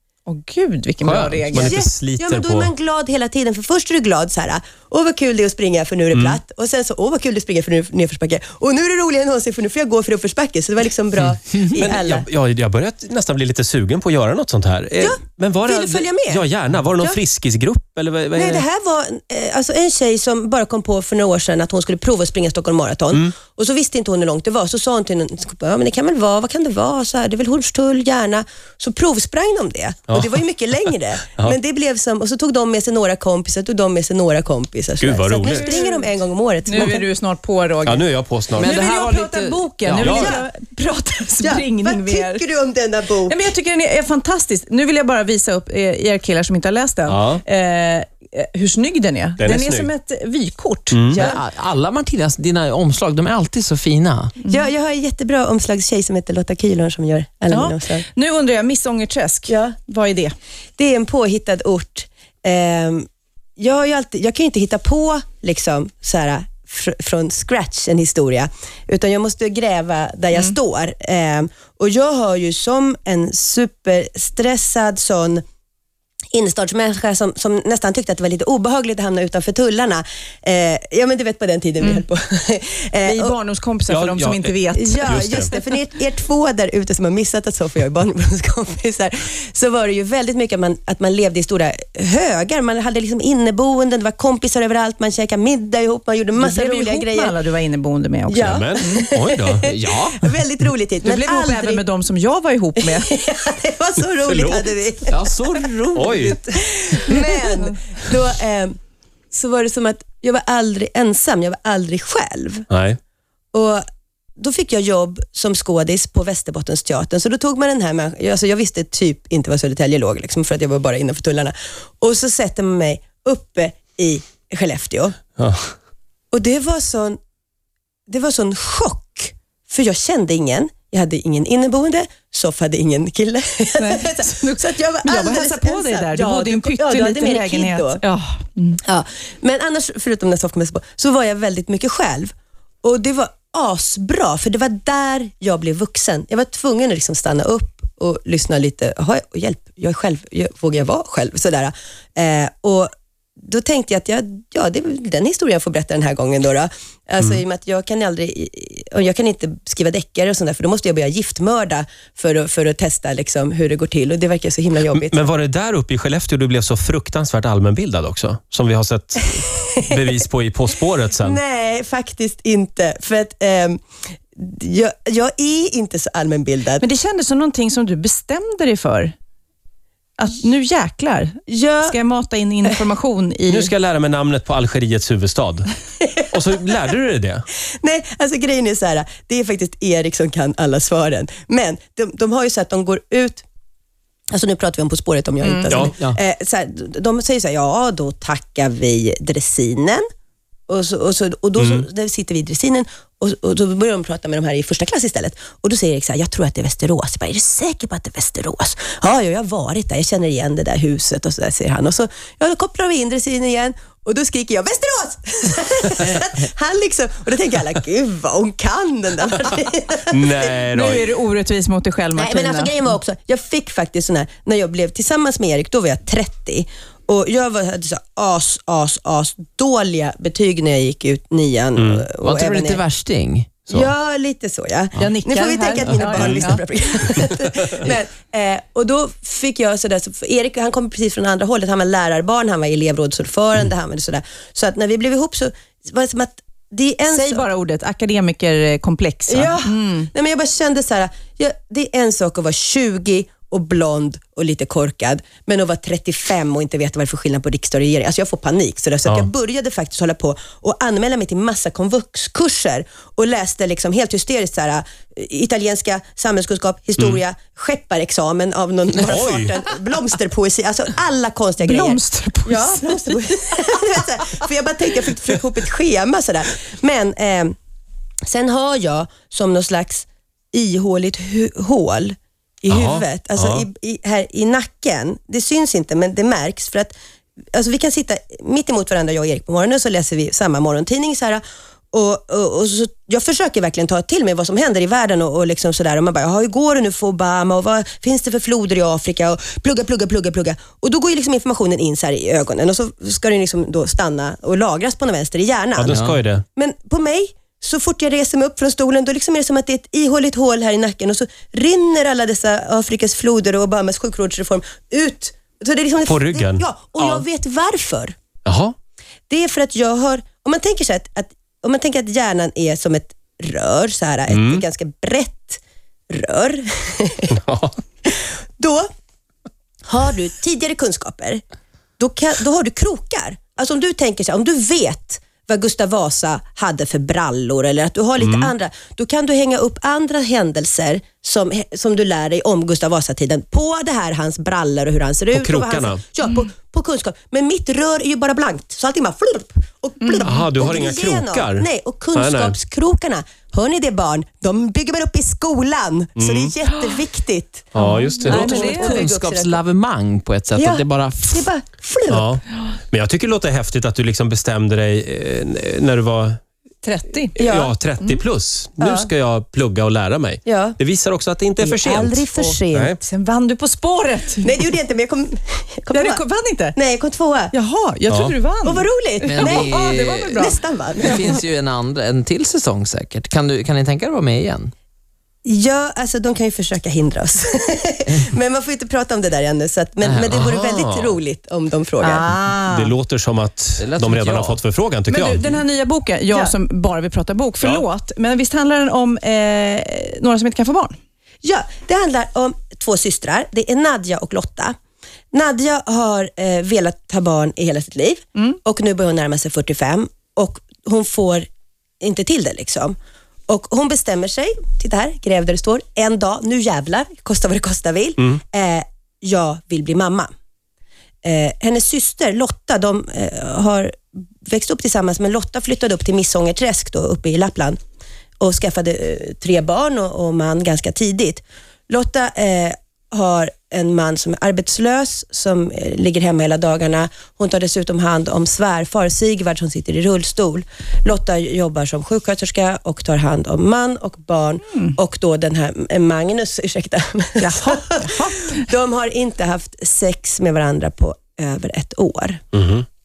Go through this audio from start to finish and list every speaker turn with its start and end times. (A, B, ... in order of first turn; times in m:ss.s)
0:00.3-0:01.8 A
0:01.0-0:02.7 B
0:01.5-0:12.2 C
0:06.1-0:06.4 B
0:11.7-0:18.6 B
0:15.0-0:16.4 C
0:18.4-0:37.0 C
0:30.1-0:31.6 B
0:35.0-0:35.7 B
0:35.4-0:36.1 A
0:36.7-0:38.1 A
0:37.8-0:38.8 B
0:38.6-0:40.3 D
0:38.6-0:42.4 A
0:40.0-0:40.4 B
0:40.1-0:40.4 C
0:41.4-0:43.4 C
0:43.2-0:51.3 A
0:47.1-0:47.4 B
0:49.4-0:49.9 B
0:50.9-0:51.2 B
0:51.1-0:51.4 C
0:51.1-0:54.3 D
0:54.4-0:54.7 A
0:54.5-0:58.0 C
0:57.5-1:00.3 A
0:59.5-0:59.8 C
1:00.8-1:03.1 C
1:03.6-1:15.4 C
1:16.3-1:23.4 C
1:23.0-1:25.8 A
1:23.9-1:25.5 B
1:24.8-1:37.4 C
1:36.4-1:39.1 A
1:38.3-1:41.8 C
1:38.4-1:39.7 B
1:39.6-1:40.3 D
1:41.0-1:43.1 A
1:42.8-1:45.6 C
1:44.2-1:44.7 B
1:45.1-1:46.6 D
1:45.9-1:46.4 B
1:46.6-1:48.8 C
1:49.3-1:52.7 C
1:52.7-1:53.0 B
1:53.5-1:53.8 C
1:54.4-2:05.1 C
2:05.4-2:05.7 B
2:06.3-2:07.2 C
2:08.1-2:18.0 C
2:13.8-2:18.8 A
2:18.8-2:22.3 C
2:22.8-2:45.3 C
2:44.9-2:51.4 B
2:49.8-2:50.2 C
2:51.2-2:53.8 C
2:54.4-2:56.9 C
2:56.8-2:59.1 A
3:00.2-3:03.7 A
3:01.5-3:02.0 C
3:03.5-3:05.7 B
3:06.3-3:07.4 B
3:07.8-3:13.4 C
3:14.3-3:20.0 C
3:15.4-3:15.9 A
3:15.7-3:15.9 B
3:20.7-3:40.5 C
3:21.6-3:21.8 B
3:40.1-3:41.1 B
3:40.7-3:42.9 A
3:42.1-3:52.8 C
3:51.8-3:52.1 B
3:52.2-3:53.9 D
3:53.7-4:07.4 C
3:55.0-3:56.6 A
4:07.1-4:10.1 A
4:09.3-4:37.6 C
4:19.0-4:19.3 B
4:29.0-4:29.5 B
4:31.6-4:33.1 A
4:38.3-4:47.0 C
4:42.7-4:43.7 B
4:47.5-5:06.0 C
5:05.8-5:06.4 B
5:05.9-5:06.2 D
5:06.6-5:18.2 C
5:16.1-5:17.2 B
5:18.4-5:18.7 B
5:19.3-5:27.3 C
5:24.3-5:24.6 B
5:27.3-5:27.8 B
5:28.1-5:28.9 C
5:29.9-5:31.4 C
5:32.0-5:59.6 C
5:38.2-5:38.5 B
5:45.3-5:46.0 B
5:50.0-5:50.3 A
5:50.2-5:52.6 B
5:56.2-5:56.5 B
5:57.7-5:58.7 B
5:57.8-5:59.0 A
5:58.3-6:01.5 D
6:00.6-6:02.4 C
6:02.1-6:06.4 B
6:06.8-6:07.4 A
6:07.4-6:13.0 B
6:07.4-6:07.7 C
6:08.8-6:09.1 C
6:10.4-6:10.8 C
6:11.6-6:12.9 C
6:13.0-6:14.6 A
6:14.4-6:16.2 C
6:15.9-6:16.8 A
6:16.7-6:17.5 C
6:17.5-6:21.3 A
6:18.1-6:18.3 B
6:18.6-6:19.8 C
6:19.3-6:20.5 D
6:20.4-6:21.4 C
6:21.0-6:24.7 D
6:25.4-6:32.3 C
6:30.0-6:30.4 D
6:30.3-6:31.1 B
6:32.0-6:32.9 A
6:32.6-6:35.6 B
6:33.8-6:34.6 D
6:35.1-6:41.0 A
6:41.4-6:44.7 C
6:45.3-6:51.4 C
6:52.0-6:53.0 C
6:53.5-7:00.3 C
7:01.2-7:07.8 C
7:08.4-7:32.4 C
7:27.4-7:28.6 A
7:32.5-7:32.8 B